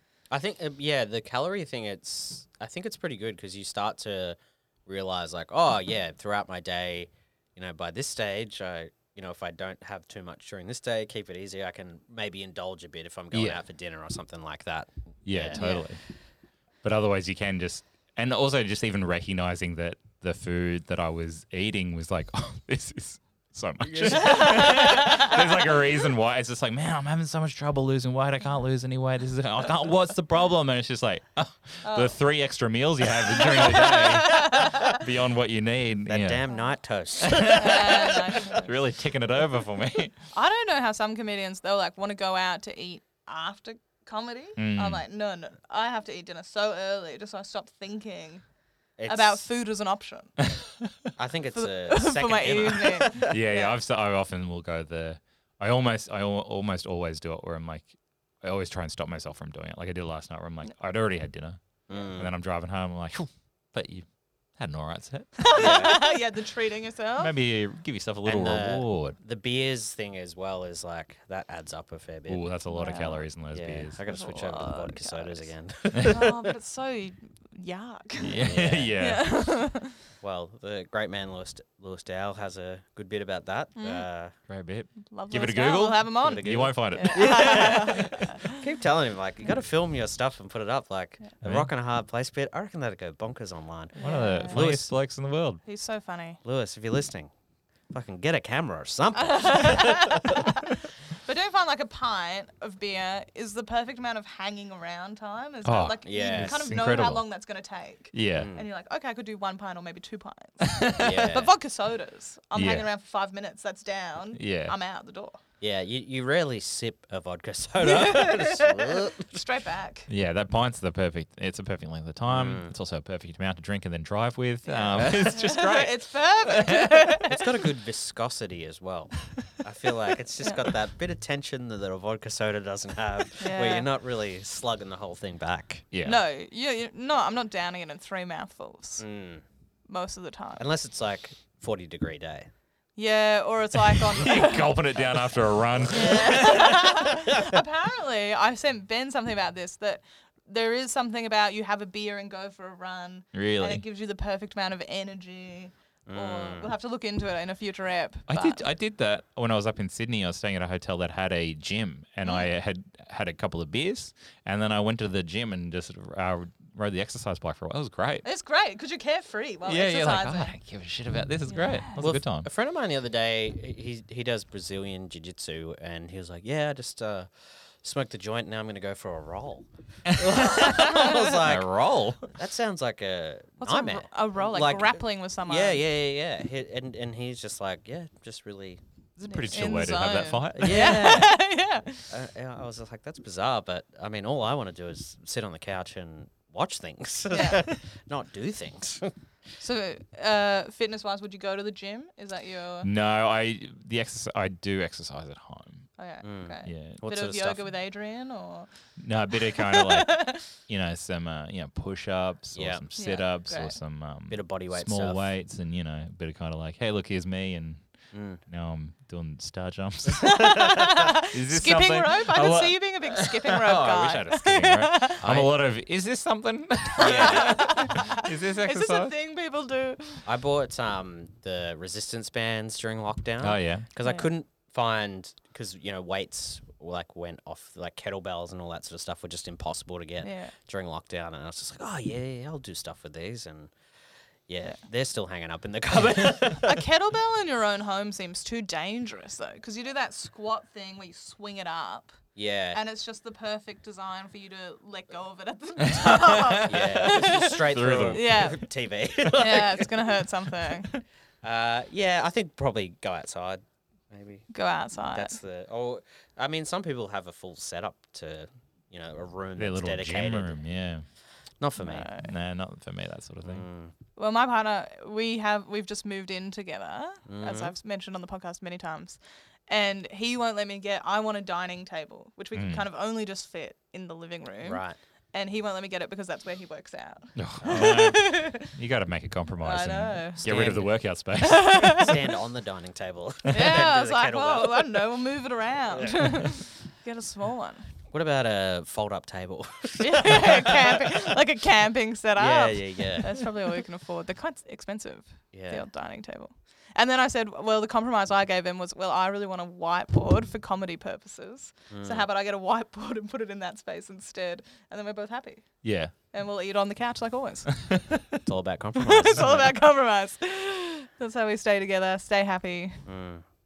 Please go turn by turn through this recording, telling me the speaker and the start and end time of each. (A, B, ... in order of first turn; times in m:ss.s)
0:00.3-0:15.6 A
0:13.3-0:13.6 B
0:15.3-0:16.0 B
0:15.5-0:15.9 C
0:16.8-0:36.4 B
0:23.8-0:25.2 A
0:24.2-0:25.4 C
0:31.8-0:32.2 C
0:33.4-0:35.0 C
0:36.1-0:38.2 A
0:37.2-0:40.2 B
0:37.4-0:38.7 C
0:40.3-0:48.4 C
0:44.6-0:45.0 B
0:49.0-0:49.4 A
0:49.1-0:50.3 C
0:50.4-0:50.9 B
0:51.2-0:53.3 A
0:51.6-0:53.7 C
0:53.2-1:01.6 B
1:01.9-1:02.3 A
1:02.2-1:04.1 B
1:04.6-1:06.0 B
1:05.4-1:07.3 C
1:05.5-1:06.0 A
1:07.2-1:09.2 B
1:08.2-1:12.5 A
1:12.3-1:14.0 B
1:12.7-1:13.3 C
1:13.5-1:16.3 A
1:14.1-1:18.4 C
1:15.9-1:16.2 B
1:18.2-1:19.3 B
1:18.2-1:19.0 A
1:19.0-1:20.0 C
1:20.2-1:24.3 A
1:23.8-1:24.1 C
1:24.5-1:28.3 B
1:25.0-1:28.6 C
1:26.2-1:34.9 A
1:31.4-1:31.7 B
1:34.0-1:34.6 C
1:34.0-1:35.6 B
1:35.7-1:36.4 C
1:36.4-1:37.3 A
1:37.9-1:40.5 A
1:39.2-1:55.4 C
1:45.6-1:47.2 B
1:46.0-1:46.7 A
1:48.1-1:48.5 B
1:48.4-1:48.7 A
1:51.0-1:51.5 A
1:52.6-1:52.9 B
1:54.4-1:54.8 B
1:55.6-1:59.4 A
1:57.8-2:00.1 C
2:00.1-2:07.0 B
2:02.2-2:02.7 A
2:04.7-2:07.4 C
2:07.3-2:15.9 A
2:13.4-2:13.9 C
2:15.9-2:16.2 B
2:16.0-2:19.0 C
2:19.0-2:19.4 A
2:19.9-2:20.6 C
2:20.6-2:22.5 A
2:23.0-2:24.8 C
2:24.0-2:27.0 B
2:25.9-2:38.6 C
2:26.2-2:26.5 A
2:33.3-2:33.8 B
2:36.1-2:36.7 A
2:38.3-2:48.2 B
2:48.2-2:50.6 C
2:49.7-2:52.5 B
2:51.5-2:52.0 C
2:52.0-2:57.3 A
2:57.8-3:08.8 A
3:00.1-3:02.3 B
3:03.6-3:05.8 C
3:09.2-3:11.2 B
3:09.3-3:12.1 C
3:10.6-3:11.4 A
3:12.1-3:19.2 A
3:17.3-3:17.6 C
3:19.6-3:22.9 C
3:22.8-3:25.9 B
3:26.0-3:28.7 C
3:26.2-3:27.7 A
3:26.7-3:27.0 B
3:29.0-3:37.8 B
3:29.4-3:30.5 C
3:32.5-3:32.8 A
3:33.0-3:33.8 C
3:34.3-3:35.3 A
3:38.1-3:38.4 A
3:38.5-3:40.6 B
3:40.2-3:45.2 C
3:41.2-3:49.1 B
3:45.2-3:45.5 A
3:47.0-3:48.0 A
3:47.0-3:50.2 C
3:50.2-4:03.7 A
3:53.4-3:53.9 B
3:54.0-3:54.3 C
4:00.2-4:00.5 C
4:04.5-4:06.8 A
4:06.6-4:12.2 C
4:12.4-4:12.8 A
4:12.7-4:18.7 C
4:15.8-4:18.4 B
4:16.7-4:20.2 A
4:19.3-4:20.9 C
4:21.4-4:24.5 A
4:24.5-4:25.4 C
4:25.1-4:30.6 A
4:29.6-4:31.0 B
4:31.6-4:32.1 A
4:31.8-4:32.3 C
4:32.1-4:33.6 B
4:33.4-4:33.9 A
4:34.2-4:44.8 C
4:37.3-4:37.7 A
4:42.6-4:42.8 B
4:44.6-4:45.0 A
4:45.3-4:48.7 C
4:47.4-4:52.0 B
4:49.6-4:50.4 C
4:50.4-4:50.9 A
4:51.4-4:52.2 C
4:51.8-4:55.1 A
4:53.5-4:57.9 C
4:55.9-4:56.4 A
4:58.1-5:01.2 A
5:00.0-5:18.0 C
5:02.4-5:03.5 A
5:05.5-5:05.9 A
5:11.9-5:12.3 A
5:15.8-5:16.1 B
5:18.4-5:19.8 A
5:19.0-5:23.0 C
5:23.0-5:23.4 A